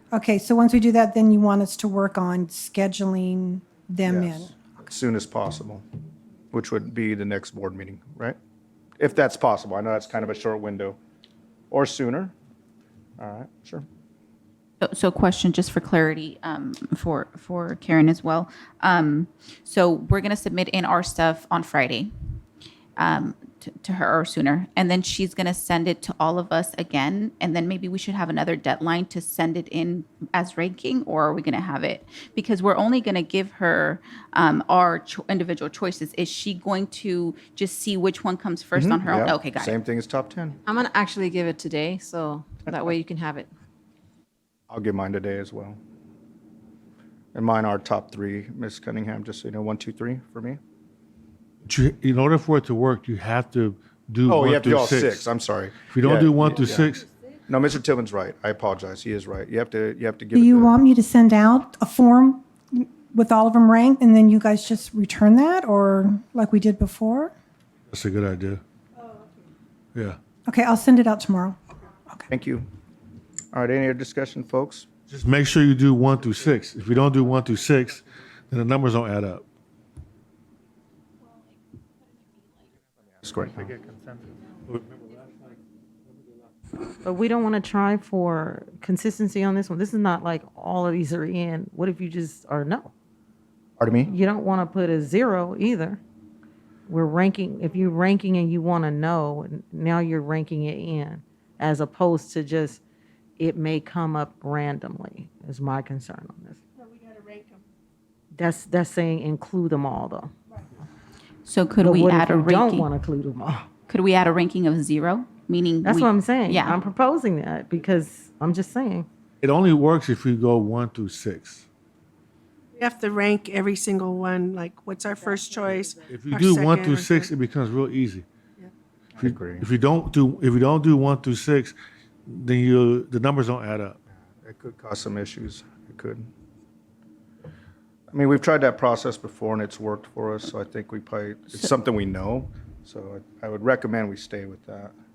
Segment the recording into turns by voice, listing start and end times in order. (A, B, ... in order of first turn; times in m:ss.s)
0:00.1-0:04.5 A
0:04.0-0:05.8 B
0:06.5-0:08.4 B
0:09.0-0:11.0 B
0:11.7-0:12.3 B
0:13.2-0:13.8 B
0:14.8-0:22.1 C
0:23.0-0:39.8 C
0:38.8-0:40.6 B
0:40.7-0:43.5 D
0:44.7-0:45.8 B
0:47.3-0:50.6 B
0:51.6-0:55.3 E
0:54.3-0:57.0 B
0:55.8-0:57.1 E
0:57.5-1:00.7 B
1:00.3-1:07.3 A
1:07.9-1:08.6 E
1:10.5-1:11.6 A
1:12.3-1:12.7 B
1:13.5-1:14.9 B
1:15.1-1:19.4 E
1:23.2-1:23.8 B
1:23.7-1:25.4 E
1:27.0-1:32.9 F
1:33.8-1:34.1 B
1:34.1-1:36.0 F
1:36.9-1:42.8 F
1:43.4-1:46.6 F
1:48.3-1:50.3 F
1:51.4-1:52.9 C
1:51.8-1:53.7 F
1:53.9-1:56.8 C
1:55.8-1:59.1 F
1:59.4-2:01.7 E
2:02.8-2:07.3 G
2:06.1-2:08.3 E
2:09.2-2:09.7 B
2:09.2-2:11.8 E
2:12.3-2:14.0 E
2:14.4-2:16.3 B
2:18.1-2:24.9 B